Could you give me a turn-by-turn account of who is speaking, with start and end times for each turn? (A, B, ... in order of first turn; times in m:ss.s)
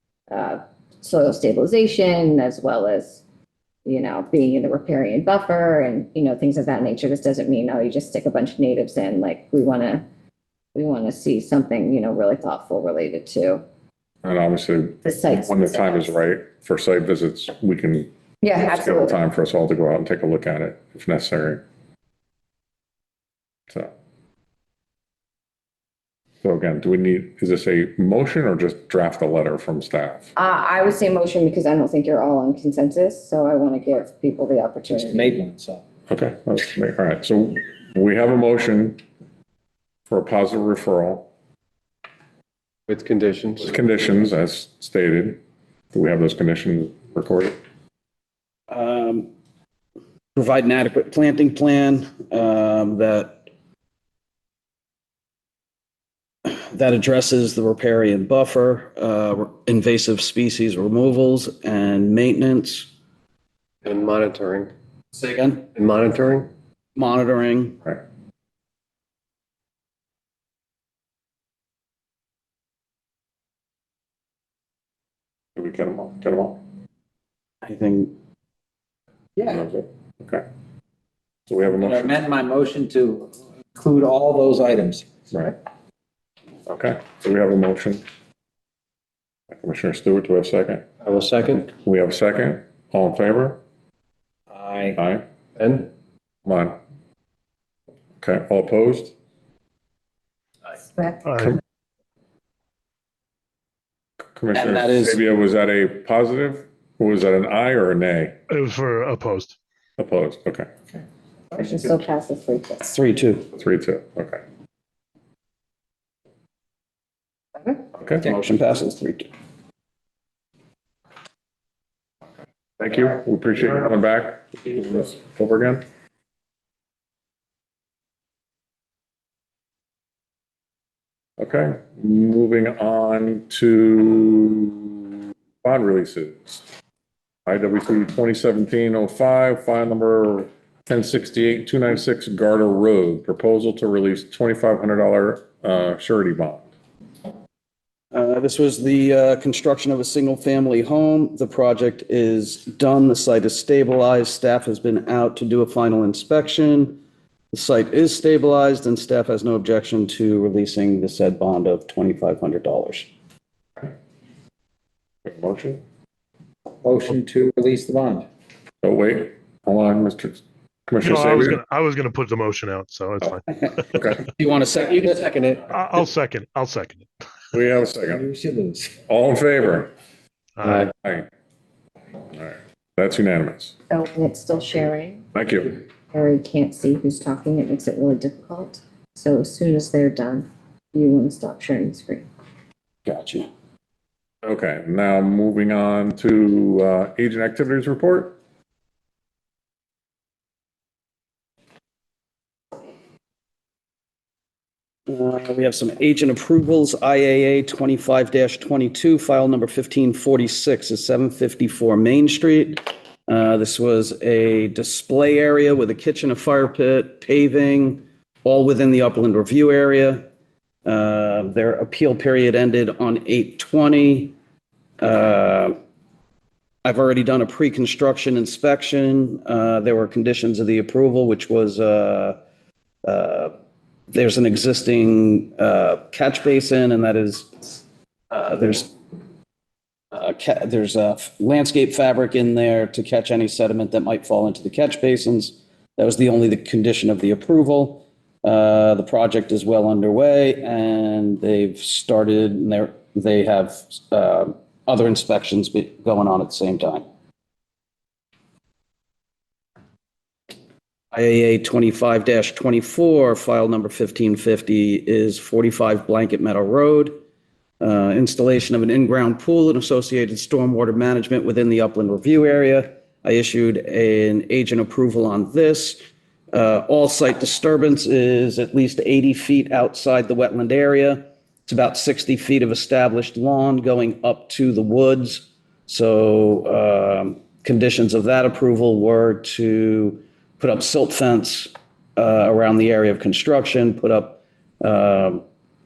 0:00.3-0:03.2 A
0:03.9-0:10.0 A
0:10.7-0:13.6 A
0:14.2-0:18.1 B
0:15.0-0:16.1 A
0:18.4-0:19.2 A
0:18.7-0:21.6 B
0:26.4-0:30.3 B
0:30.4-0:35.4 A
0:34.9-0:35.8 C
0:36.1-0:39.0 B
0:40.1-0:41.3 B
0:42.9-0:43.7 D
0:43.6-0:45.4 B
0:45.9-0:47.6 B
0:48.7-0:49.3 E
0:50.4-0:53.4 E
0:56.4-1:02.9 E
1:03.8-1:04.7 D
1:05.1-1:05.6 E
1:05.8-1:06.5 D
1:07.0-1:07.9 E
1:15.6-1:16.6 B
1:17.6-1:18.1 E
1:19.5-1:20.4 B
1:21.5-1:22.2 B
1:21.7-1:25.1 C
1:26.7-1:28.0 B
1:29.6-1:30.8 B
1:31.0-1:31.7 D
1:31.8-1:33.6 B
1:34.5-1:35.0 C
1:35.0-1:35.2 B
1:35.6-1:35.9 D
1:36.5-1:36.8 B
1:38.2-1:39.1 B
1:41.2-1:41.6 F
1:44.3-1:48.4 B
1:44.5-1:45.2 E
1:48.5-1:49.6 F
1:50.0-1:50.7 B
1:51.5-1:53.0 A
1:52.9-1:53.5 E
1:53.5-1:54.4 B
1:58.0-1:58.3 B
1:58.2-1:59.3 E
2:02.8-2:05.8 B
2:11.4-2:16.7 B
2:17.5-2:26.7 B
2:28.1-2:37.0 E
2:37.5-2:43.1 E
2:45.2-2:45.8 B
2:46.8-2:48.3 C
2:48.8-2:51.6 B
2:51.0-2:54.1 F
2:54.0-2:54.3 B
2:54.4-2:54.8 E
2:54.8-2:55.7 D
2:55.7-2:57.1 F
2:57.5-2:58.3 B
2:58.1-2:59.0 C
2:59.1-2:59.9 B
3:00.6-3:00.9 F
3:00.6-3:00.9 D
3:01.0-3:01.3 B
3:02.3-3:03.7 B
3:03.9-3:05.2 A
3:05.3-3:05.8 B
3:06.1-3:12.2 A
3:13.1-3:13.5 E
3:14.4-3:18.4 B
3:25.1-3:40.2 E
3:40.8-3:44.4 E
3:45.0-3:45.7 E
3:46.8-3:52.4 E
3:53.0-3:53.5 E
3:54.1-3:58.9 E
4:00.1-4:17.0 E
4:21.1-4:27.2 E
4:27.8-4:36.0 E
4:36.5-4:55.4 E